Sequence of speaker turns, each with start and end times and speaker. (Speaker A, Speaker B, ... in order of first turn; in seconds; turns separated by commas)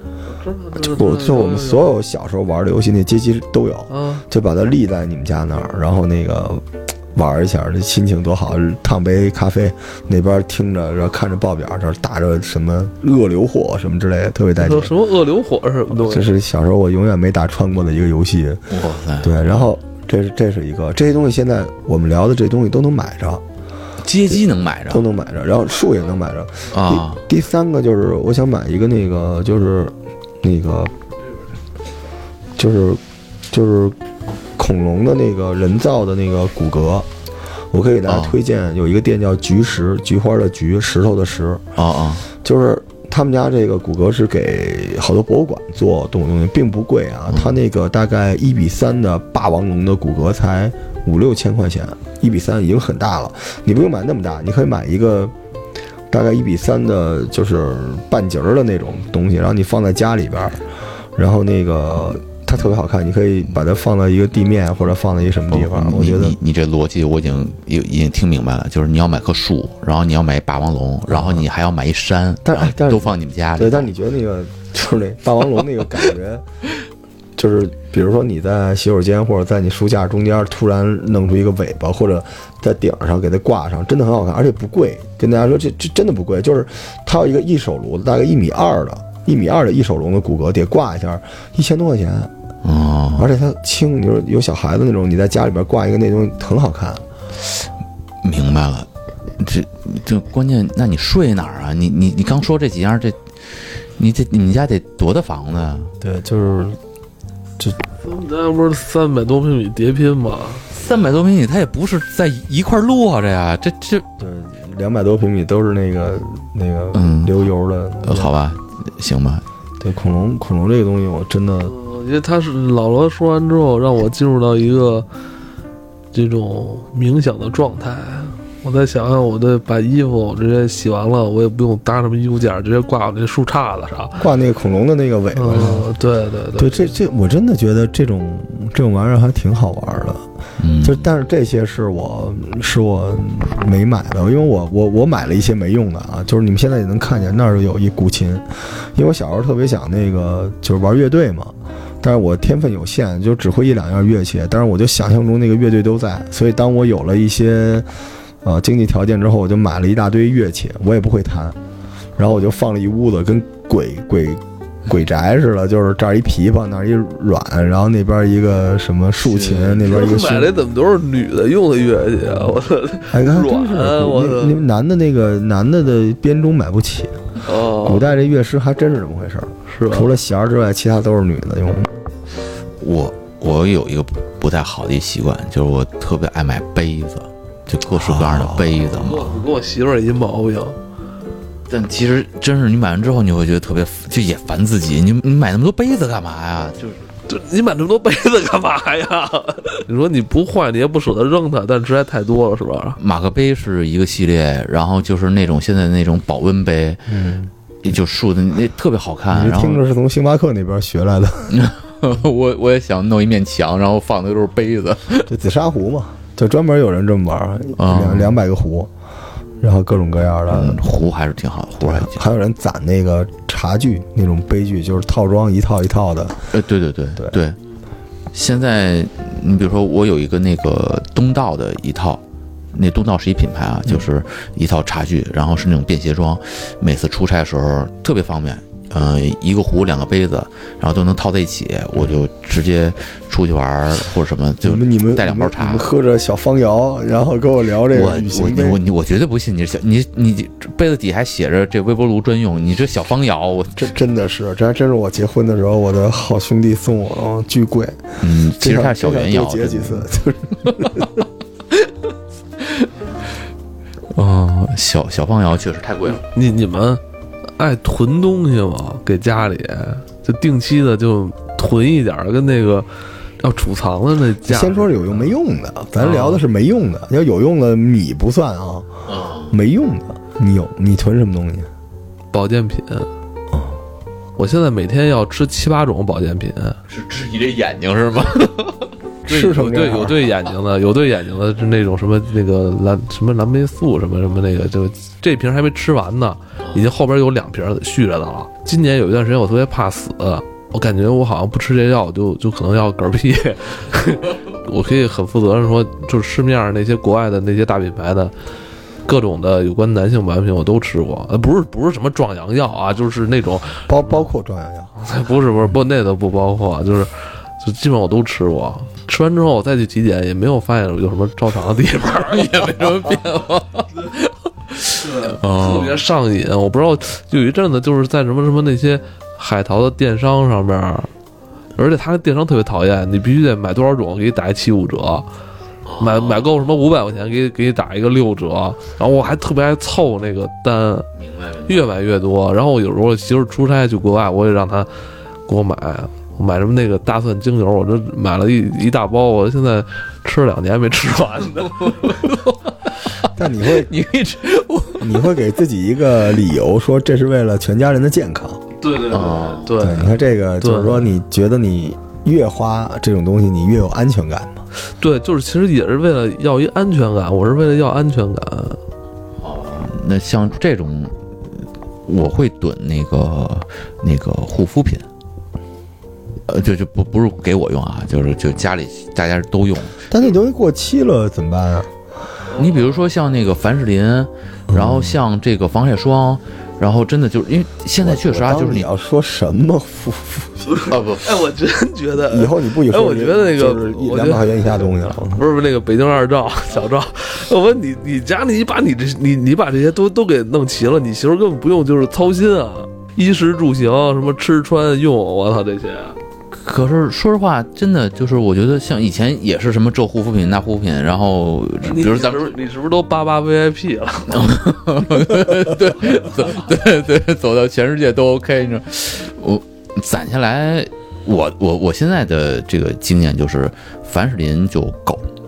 Speaker A: 0.3-1.9, Speaker B: 0.8-14.9, Speaker A: 3.9-4.2, Speaker A: 14.6-16.3, Speaker B: 15.9-18.7, Speaker C: 18.7-19.7, Speaker B: 19.2-23.4, Speaker C: 24.0-25.0, Speaker B: 24.9-30.9, Speaker C: 26.7-27.2, Speaker B: 32.6-34.0, Speaker B: 34.6-37.1, Speaker B: 37.7-41.6, Speaker C: 38.1-38.4, Speaker C: 41.8-42.2, Speaker B: 42.4-55.3, Speaker C: 47.3-47.6, Speaker B: 56.1-60.6, Speaker B: 61.2-66.4, Speaker C: 65.5-73.9, Speaker B: 71.1-71.5, Speaker B: 72.4-76.4, Speaker B: 77.3-92.3, Speaker C: 92.6-93.3, Speaker B: 93.2-97.0, Speaker C: 98.2-103.2, Speaker C: 104.0-105.9, Speaker B: 106.0-106.8, Speaker A: 108.0-110.6, Speaker C: 110.7-114.1, Speaker B: 114.2-118.3, Speaker C: 116.9-117.4, Speaker C: 118.0-119.4, Speaker B: 119.8-121.7, Speaker A: 121.6-125.1, Speaker A: 126.1-134.2, Speaker B: 134.2-135.9, Speaker A: 135.3-136.9, Speaker B: 136.6-140.2, Speaker C: 140.6-141.0, Speaker B: 140.8-157.9, Speaker B: 158.4-161.6, Speaker B: 162.2-170.5, Speaker C: 169.2-169.9, Speaker A: 169.9-174.6, Speaker B: 173.1-182.0, Speaker A: 177.4-178.1, Speaker A: 179.7-180.1, Speaker C: 182.8-189.3, Speaker B: 187.9-188.8, Speaker A: 188.9-190.8, Speaker C: 191.7-197.0, Speaker A: 197.3-203.0, Speaker C: 203.0-207.1, Speaker B: 207.1-207.5, Speaker C: 207.8-209.8, Speaker B: 209.3-211.6, Speaker C: 211.5-215.3, Speaker B: 215.3-218.9, Speaker C: 217.8-218.3, Speaker B: 219.6-220.8, Speaker C: 220.5-222.2, Speaker B: 221.8-226.4, Speaker C: 226.5-227.6, Speaker C: 228.3-232.2, Speaker C: 232.7-245.9, Speaker B: 244.6-248.8, Speaker C: 247.9-253.9, Speaker B: 253.8-261.1, Speaker C: 258.2-260.1, Speaker C: 262.6-262.9, Speaker C: 264.1-266.2, Speaker A: 266.1-272.9, Speaker A: 273.4-275.3, Speaker B: 274.4-279.0, Speaker A: 276.0-276.4, Speaker C: 279.1-279.5, Speaker B: 279.5-281.7, Speaker A: 282.3-283.1, Speaker B: 283.5-283.8, Speaker A: 284.4-286.8, Speaker C: 286.9-288.8, Speaker B: 289.2-290.3, Speaker A: 289.3-308.3, Speaker A: 309.1-314.2, Speaker B: 313.9-314.9, Speaker A: 315.0-322.7, Speaker C: 322.1-326.0, Speaker A: 324.9-331.1, Speaker A: 331.8-335.3, Speaker C: 335.8-336.5, Speaker A: 336.0-341.1, Speaker C: 341.2-341.8, Speaker A: 341.7-344.9, Speaker A: 345.4-352.2, Speaker C: 351.8-352.6, Speaker C: 353.2-355.3, Speaker B: 353.3-353.9, Speaker B: 355.0-358.6, Speaker A: 358.8-361.0, Speaker C: 359.1-359.8, Speaker B: 359.8-364.6, Speaker A: 364.9-368.8, Speaker C: 369.4-375.1, Speaker C: 376.5-380.0, Speaker B: 380.1-381.9, Speaker A: 382.5-382.8, Speaker C: 382.6-388.9, Speaker B: 384.7-385.2, Speaker B: 388.0-390.7, Speaker A: 390.6-406.2, Speaker C: 390.9-391.4, Speaker B: 392.3-395.4, Speaker C: 406.6-412.5, Speaker A: 411.8-414.5, Speaker C: 414.3-425.2